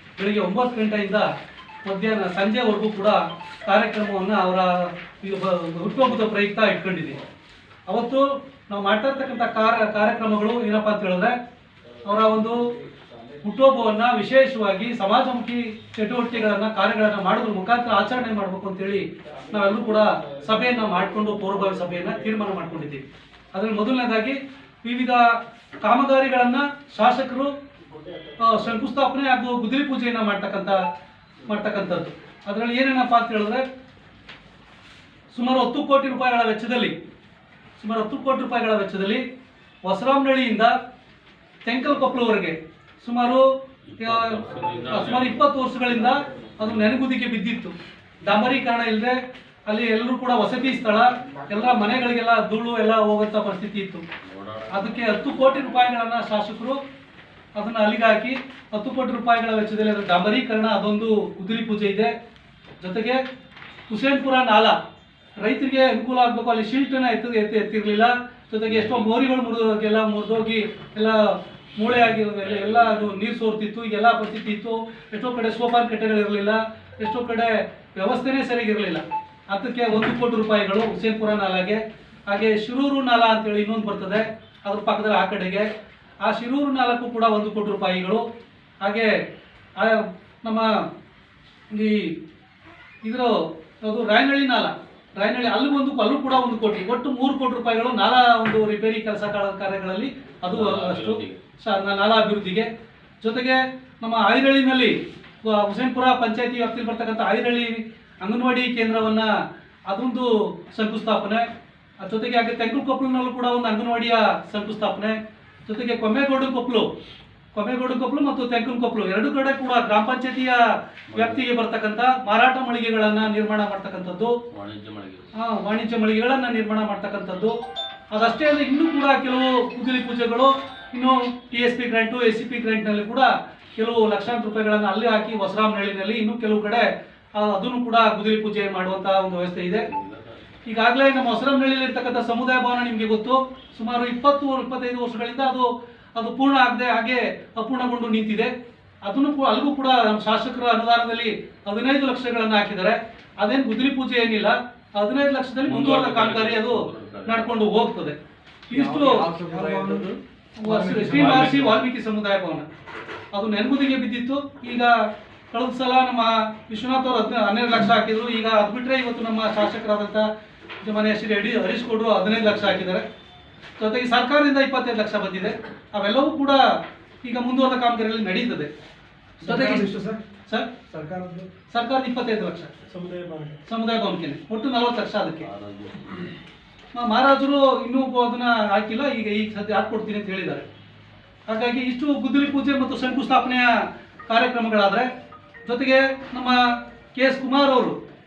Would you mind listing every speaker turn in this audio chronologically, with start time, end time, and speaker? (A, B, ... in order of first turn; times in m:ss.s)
0:00.2-0:01.3 A
0:01.8-0:07.2 A
0:07.9-0:11.3 A
0:12.0-0:12.6 A
0:12.1-0:13.8 B
0:13.4-0:25.2 A
0:19.3-0:22.6 B
0:25.8-0:27.5 A
0:27.8-0:29.0 B
0:28.4-0:30.8 A
0:31.4-0:33.6 A
0:35.3-0:36.9 A
0:37.8-0:39.2 A
0:39.8-0:40.7 A
0:41.6-0:43.4 A
0:43.8-0:45.4 C
0:44.0-0:49.2 A
0:44.6-0:44.9 B
0:45.8-0:46.3 B
0:46.6-0:46.9 C
0:49.7-0:54.0 A
0:51.0-0:52.0 B
0:54.2-0:55.3 C
0:54.7-0:56.8 A
0:57.6-1:02.1 A
1:02.8-1:03.2 A
1:03.9-1:04.7 A
1:05.4-1:25.7 A
1:08.7-1:09.1 C
1:12.0-1:13.2 C
1:26.2-1:28.2 A
1:28.8-1:29.1 A
1:29.8-1:30.7 A
1:31.7-1:32.1 A
1:33.0-1:42.7 A
1:40.5-1:41.4 C
1:43.2-1:49.3 A
1:49.9-1:51.4 A
1:52.0-1:56.9 A
1:57.5-2:00.6 A
2:01.1-2:01.4 C
2:01.1-2:04.4 A
2:04.5-2:05.3 C
2:05.4-2:07.5 A
2:08.1-2:19.9 A
2:19.9-2:20.4 C
2:20.7-2:28.5 A
2:29.0-2:38.2 A
2:35.6-2:37.6 C
2:38.7-2:42.6 A
2:38.7-2:40.1 B
2:40.6-2:41.4 B
2:41.0-2:41.8 C
2:43.3-2:44.9 A
2:45.5-2:50.3 A
2:50.8-2:53.0 A
2:53.8-2:56.6 A
2:57.2-2:58.7 A
2:59.4-3:00.2 B
2:59.4-2:59.9 A
3:00.9-3:01.5 B
3:01.7-3:02.7 A
3:02.9-3:03.6 B
3:03.7-3:05.5 A
3:05.4-3:06.2 C
3:06.9-3:10.6 A
3:11.5-3:13.7 A
3:14.3-3:15.1 A
3:15.6-3:16.6 A
3:17.1-3:17.9 A